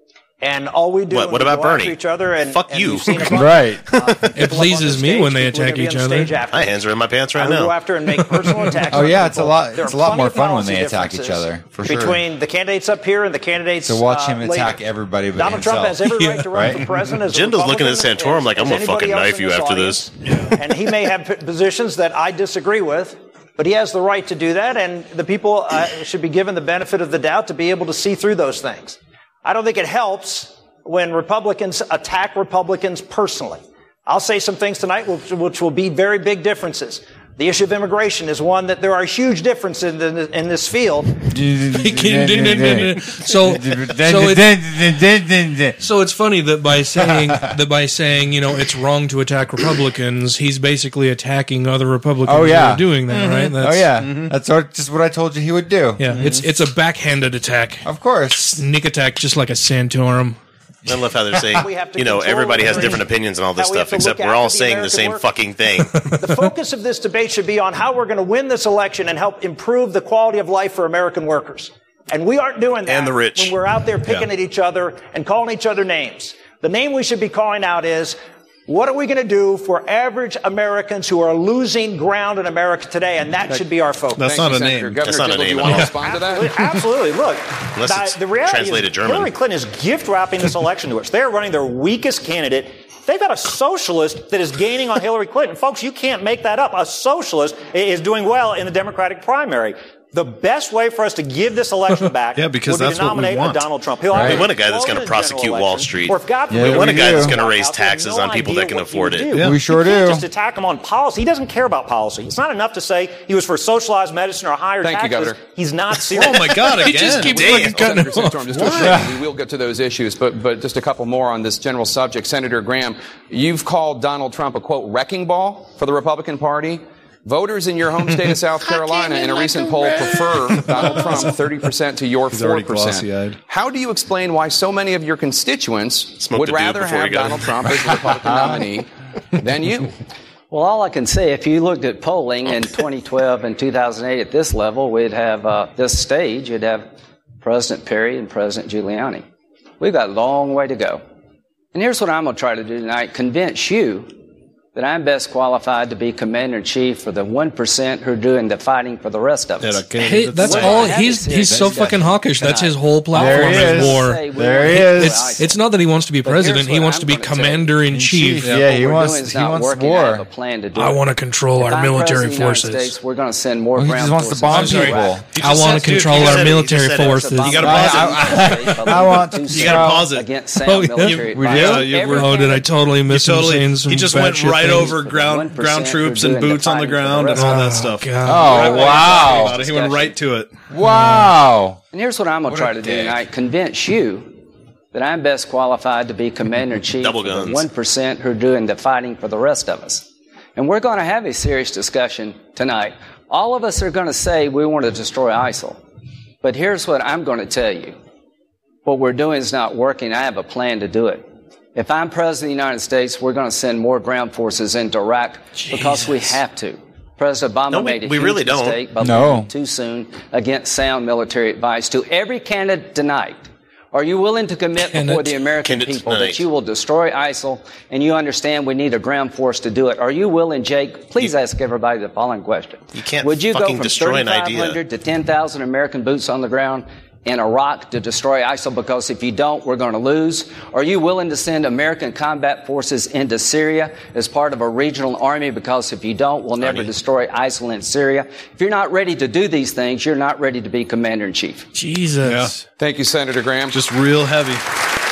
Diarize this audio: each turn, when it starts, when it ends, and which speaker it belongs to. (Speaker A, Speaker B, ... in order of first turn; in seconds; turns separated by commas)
Speaker A: 0.4-14.8, Speaker B: 1.1-4.3, Speaker C: 3.3-3.8, Speaker D: 4.3-6.4, Speaker B: 6.5-7.8, Speaker D: 8.4-8.8, Speaker C: 8.8-12.2, Speaker E: 10.3-10.7, Speaker C: 13.8-16.9, Speaker A: 15.3-41.2, Speaker D: 16.0-16.6, Speaker B: 17.2-20.1, Speaker F: 20.2-20.5, Speaker C: 41.3-45.8, Speaker D: 41.7-44.5, Speaker D: 45.8-54.0, Speaker C: 46.9-47.6, Speaker C: 52.2-56.4, Speaker F: 53.1-54.3, Speaker D: 56.0-60.4, Speaker F: 56.1-56.5, Speaker C: 57.8-58.6, Speaker B: 60.9-66.1, Speaker A: 61.5-65.2, Speaker A: 66.2-84.2, Speaker B: 72.8-73.5, Speaker F: 84.2-85.1, Speaker G: 84.2-86.6, Speaker B: 85.0-85.9, Speaker E: 85.9-116.8, Speaker B: 87.8-89.3, Speaker F: 102.3-103.7, Speaker C: 104.1-104.4, Speaker B: 104.2-109.4, Speaker C: 106.5-107.4, Speaker C: 109.4-110.2, Speaker G: 114.8-115.4, Speaker F: 116.1-117.9, Speaker D: 116.8-118.5, Speaker G: 116.8-139.9, Speaker B: 117.3-117.8, Speaker F: 118.5-119.0, Speaker C: 118.8-119.2, Speaker F: 130.7-131.3, Speaker F: 132.3-133.4, Speaker B: 136.2-137.6, Speaker H: 140.5-146.8, Speaker H: 147.4-149.2, Speaker H: 149.8-151.0, Speaker H: 151.7-154.1, Speaker H: 154.7-159.8, Speaker F: 159.6-161.0, Speaker D: 160.0-168.5, Speaker H: 160.3-165.6, Speaker C: 161.3-162.2, Speaker C: 163.1-165.4, Speaker H: 166.2-167.8, Speaker C: 167.8-170.2, Speaker F: 168.4-168.7, Speaker H: 168.5-171.1, Speaker D: 170.7-172.9, Speaker H: 171.6-175.2, Speaker C: 173.8-175.3, Speaker D: 174.5-177.7, Speaker F: 175.3-176.7, Speaker B: 175.4-177.4, Speaker H: 176.0-182.7, Speaker F: 177.3-178.6, Speaker C: 177.6-180.1, Speaker F: 179.5-180.3, Speaker D: 180.6-184.9, Speaker F: 181.0-182.3, Speaker C: 181.2-181.9, Speaker F: 183.1-190.5, Speaker H: 184.7-187.6, Speaker D: 187.3-188.7, Speaker C: 188.2-189.6, Speaker H: 188.4-190.2, Speaker C: 190.7-191.8, Speaker D: 190.9-191.2, Speaker H: 191.9-194.3, Speaker C: 192.5-193.2, Speaker H: 194.9-205.8, Speaker B: 197.0-197.7, Speaker H: 206.4-207.9, Speaker H: 208.8-251.7, Speaker D: 215.7-216.3, Speaker B: 217.7-218.8, Speaker C: 219.0-219.5, Speaker D: 224.9-225.4, Speaker B: 225.6-226.4, Speaker B: 232.9-234.8, Speaker B: 246.6-246.9, Speaker D: 251.7-252.6, Speaker F: 252.2-252.6, Speaker G: 252.8-253.8, Speaker F: 253.7-254.6